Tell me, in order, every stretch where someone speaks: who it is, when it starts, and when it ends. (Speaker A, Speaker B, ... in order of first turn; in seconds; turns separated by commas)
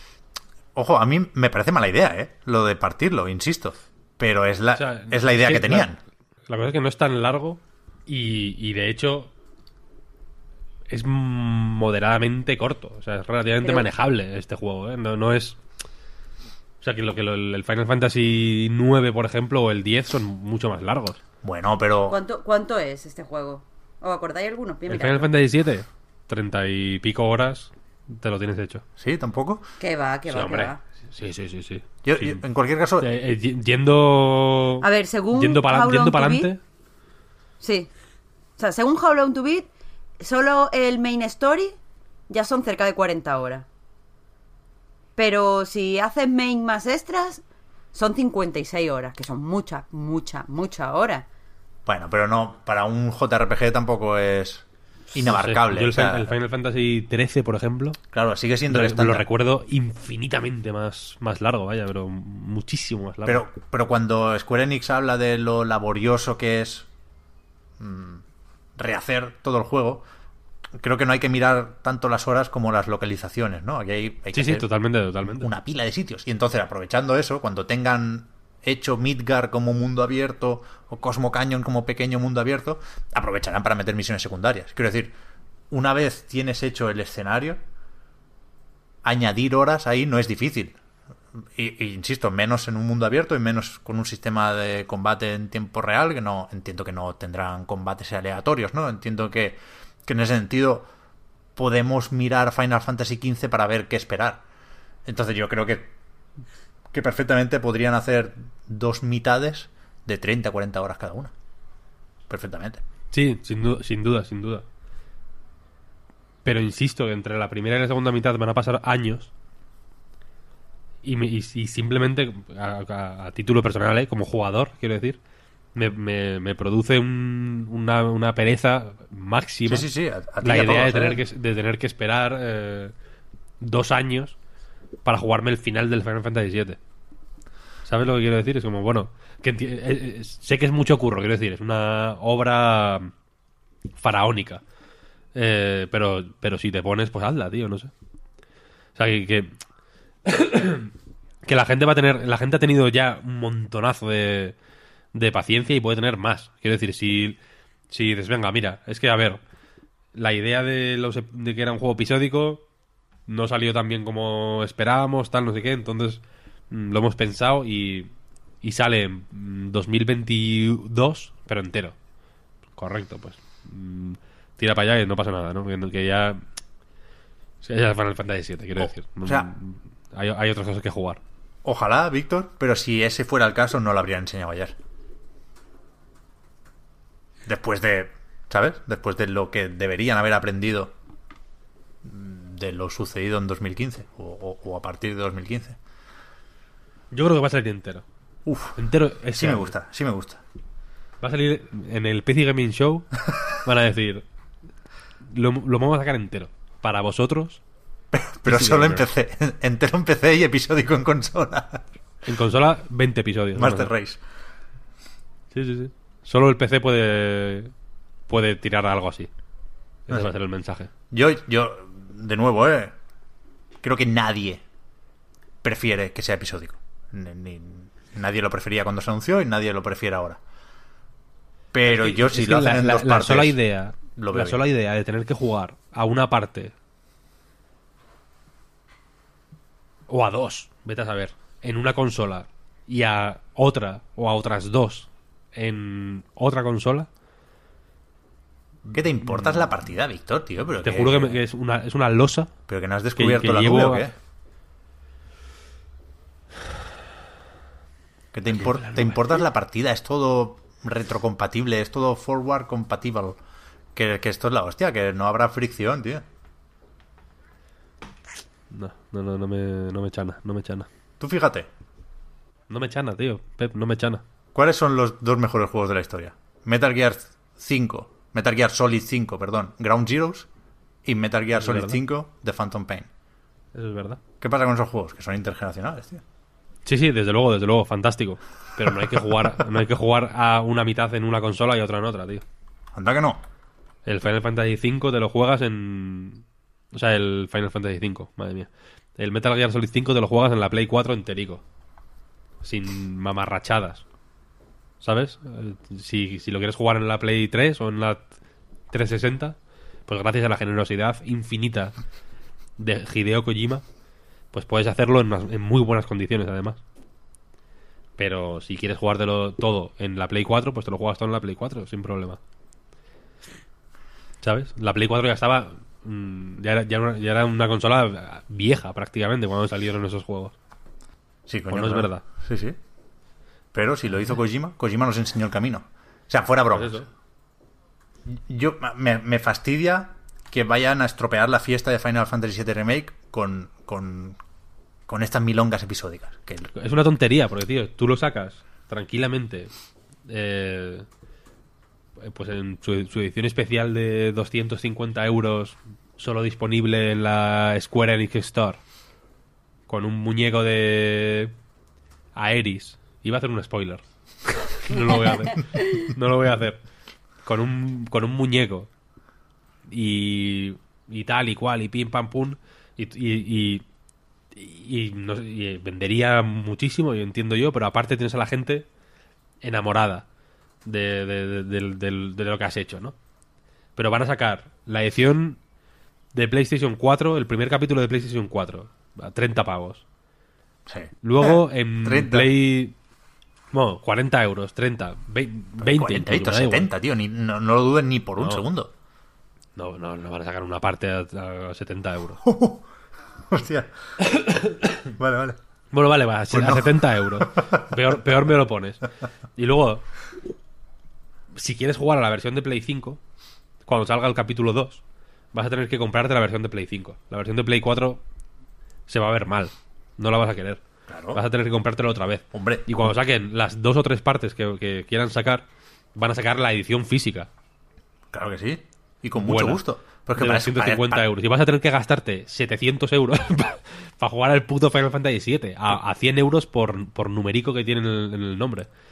Speaker A: 0.7-6.0, Speaker B: 4.8-5.9, Speaker B: 6.5-9.3, Speaker B: 10.9-15.6, Speaker B: 16.8-21.2, Speaker A: 21.4-22.2, Speaker C: 22.1-25.3, Speaker B: 24.9-28.8, Speaker A: 29.0-29.7, Speaker C: 29.8-30.8, Speaker B: 30.3-32.4, Speaker A: 32.0-33.1, Speaker B: 33.0-36.6, Speaker C: 34.8-36.5, Speaker C: 37.6-37.9, Speaker C: 38.6-39.7, Speaker C: 40.2-41.8, Speaker C: 42.3-43.6, Speaker C: 45.2-47.4, Speaker C: 47.9-51.2, Speaker A: 51.9-56.3, Speaker B: 55.2-58.0, Speaker A: 58.1-59.2, Speaker B: 58.7-63.4, Speaker A: 63.2-66.9, Speaker A: 67.8-68.2, Speaker A: 68.8-70.0, Speaker A: 70.8-74.7, Speaker B: 74.3-75.5, Speaker A: 75.3-85.1, Speaker A: 85.7-87.6, Speaker A: 89.0-90.8, Speaker A: 91.5-100.9, Speaker A: 101.5-104.4, Speaker A: 105.0-105.9, Speaker A: 106.9-111.3, Speaker A: 112.3-112.8, Speaker B: 113.1-114.6, Speaker B: 116.4-119.3, Speaker B: 121.0-125.2, Speaker B: 125.7-129.9, Speaker A: 129.7-131.2, Speaker B: 130.4-132.9, Speaker B: 133.6-134.3, Speaker B: 135.0-136.8, Speaker B: 137.8-143.1, Speaker B: 144.0-144.6, Speaker B: 145.3-147.9, Speaker B: 148.9-149.6, Speaker B: 150.2-150.9, Speaker B: 151.4-154.5, Speaker B: 155.1-157.4, Speaker B: 157.9-159.4, Speaker B: 160.1-162.6, Speaker B: 163.3-168.1, Speaker B: 168.6-171.9, Speaker B: 172.8-176.4, Speaker B: 177.6-181.2, Speaker A: 178.8-179.5, Speaker A: 181.6-184.8, Speaker A: 187.4-190.9, Speaker A: 192.0-195.8, Speaker B: 197.1-198.0, Speaker A: 198.4-198.8, Speaker B: 198.8-199.7, Speaker A: 199.3-200.4, Speaker B: 201.2-204.2, Speaker B: 205.3-207.6, Speaker A: 208.1-211.8, Speaker B: 208.4-209.0, Speaker B: 212.2-213.9, Speaker A: 213.5-214.2, Speaker B: 215.5-217.7, Speaker B: 218.3-219.3, Speaker B: 220.1-220.9, Speaker A: 221.1-222.9, Speaker A: 223.8-224.6, Speaker A: 225.6-230.4, Speaker A: 231.7-233.6, Speaker B: 231.9-236.7, Speaker A: 234.2-234.6, Speaker B: 240.1-247.1, Speaker A: 248.8-251.4, Speaker B: 249.3-249.7, Speaker B: 250.8-252.5, Speaker A: 252.7-254.1, Speaker B: 253.2-254.1, Speaker A: 258.3-263.4, Speaker B: 258.5-259.4, Speaker A: 263.9-266.2, Speaker B: 268.7-270.9, Speaker A: 271.2-271.7, Speaker B: 272.7-274.2, Speaker A: 274.5-280.5, Speaker A: 281.0-283.1, Speaker B: 281.5-282.0, Speaker B: 283.7-284.2, Speaker A: 284.4-286.2, Speaker B: 286.8-292.4, Speaker A: 292.9-293.4, Speaker B: 294.0-301.6, Speaker B: 302.6-304.0, Speaker B: 305.0-308.3, Speaker B: 308.9-311.9, Speaker B: 312.8-313.8, Speaker B: 314.5-316.8, Speaker B: 318.2-322.4, Speaker B: 324.4-330.5, Speaker A: 331.5-332.8, Speaker B: 331.7-332.2, Speaker A: 333.7-337.1, Speaker B: 336.7-337.1, Speaker A: 338.2-344.4, Speaker A: 345.1-346.7, Speaker B: 346.7-349.7, Speaker B: 350.3-351.1, Speaker B: 352.2-358.8, Speaker B: 359.9-361.5, Speaker B: 362.3-366.8, Speaker B: 367.4-368.9, Speaker B: 369.9-373.8, Speaker B: 374.5-378.9, Speaker B: 379.6-380.2, Speaker B: 380.9-383.1, Speaker B: 383.9-385.6, Speaker B: 386.3-390.0, Speaker A: 390.9-392.5, Speaker B: 391.2-392.9, Speaker B: 393.7-396.9, Speaker A: 395.8-398.9, Speaker B: 398.4-398.6, Speaker B: 399.8-402.4, Speaker A: 402.4-402.9, Speaker A: 403.5-403.9, Speaker B: 404.2-405.0, Speaker A: 405.0-405.6, Speaker B: 405.9-409.0, Speaker A: 406.5-407.9, Speaker B: 409.6-410.0, Speaker B: 411.5-413.2, Speaker B: 413.8-415.0, Speaker B: 415.5-418.2, Speaker B: 419.1-420.8, Speaker A: 421.1-421.4, Speaker B: 421.3-427.5, Speaker A: 422.5-422.8, Speaker A: 428.3-431.2, Speaker B: 429.4-429.8, Speaker B: 430.3-438.9